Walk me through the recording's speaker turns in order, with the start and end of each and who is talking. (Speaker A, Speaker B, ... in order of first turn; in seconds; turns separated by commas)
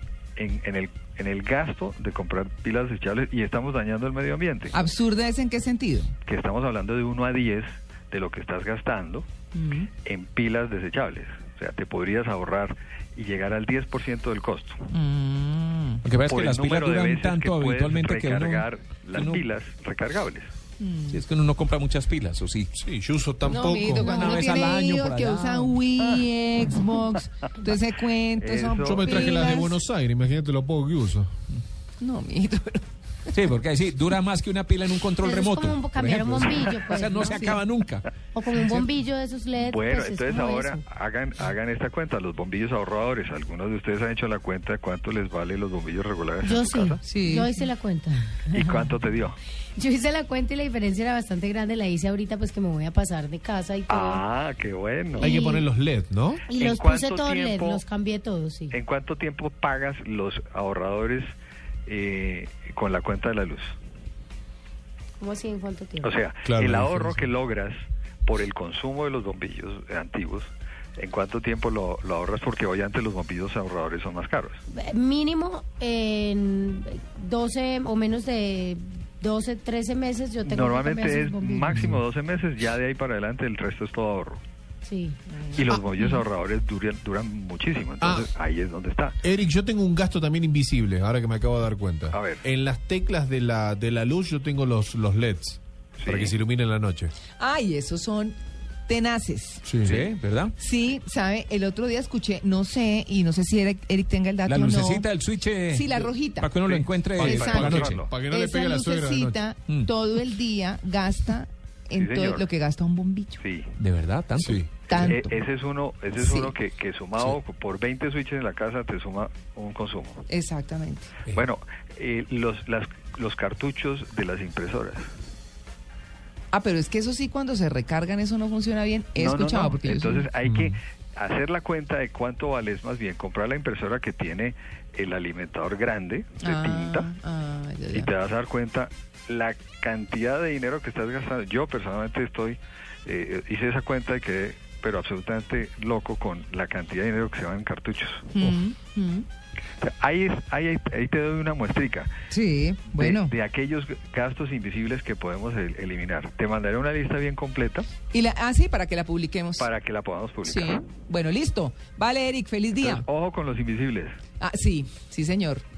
Speaker A: 0.4-4.7, Speaker B: 4.7-6.1, Speaker A: 6.3-9.3, Speaker B: 9.5-9.9, Speaker A: 10.1-14.8, Speaker B: 14.9-16.0, Speaker C: 16.0-19.4, Speaker A: 16.2-20.5, Speaker B: 20.8-21.2, Speaker C: 21.1-22.7, Speaker D: 22.8-24.2, Speaker B: 23.4-29.8, Speaker E: 24.0-24.6, Speaker C: 24.1-25.8, Speaker A: 28.4-29.4, Speaker D: 28.8-31.3, Speaker B: 32.0-32.9, Speaker C: 33.3-38.1, Speaker E: 35.2-37.6, Speaker E: 38.3-40.9, Speaker A: 39.5-47.0, Speaker E: 46.4-48.5, Speaker B: 47.0-47.6, Speaker A: 48.5-49.4, Speaker E: 49.8-54.2, Speaker A: 53.9-55.4, Speaker E: 55.2-55.6, Speaker D: 55.2-56.4, Speaker E: 56.5-58.8, Speaker A: 56.5-57.8, Speaker A: 58.7-61.3, Speaker A: 61.9-63.8, Speaker E: 65.2-66.2, Speaker A: 66.0-74.6, Speaker D: 66.4-67.2, Speaker E: 74.7-81.8, Speaker A: 80.5-84.4, Speaker E: 84.8-85.2, Speaker B: 85.3-86.2, Speaker A: 85.6-89.2, Speaker D: 88.0-88.3, Speaker D: 89.2-97.1, Speaker A: 92.1-92.4, Speaker A: 96.0-96.3, Speaker B: 97.4-98.4, Speaker B: 98.9-100.1, Speaker D: 99.6-100.0, Speaker C: 99.8-100.5, Speaker B: 100.6-105.1, Speaker C: 104.5-107.9, Speaker B: 105.7-106.5, Speaker D: 106.7-109.4, Speaker B: 107.2-113.4, Speaker A: 107.2-108.1, Speaker A: 111.9-112.5, Speaker A: 113.4-113.7, Speaker C: 113.8-114.6, Speaker D: 114.4-115.1, Speaker B: 114.9-115.2, Speaker A: 115.0-120.2, Speaker B: 116.2-116.5, Speaker B: 120.3-121.1, Speaker A: 121.3-125.1, Speaker B: 126.5-130.3, Speaker A: 129.2-137.1, Speaker D: 130.4-130.8, Speaker B: 136.4-138.1, Speaker A: 137.9-148.3, Speaker B: 148.3-149.2, Speaker A: 149.8-152.1, Speaker B: 152.3-153.3, Speaker A: 152.9-157.9, Speaker B: 158.1-159.7, Speaker A: 159.6-160.8, Speaker B: 160.4-163.1, Speaker A: 162.8-164.2, Speaker B: 164.4-165.6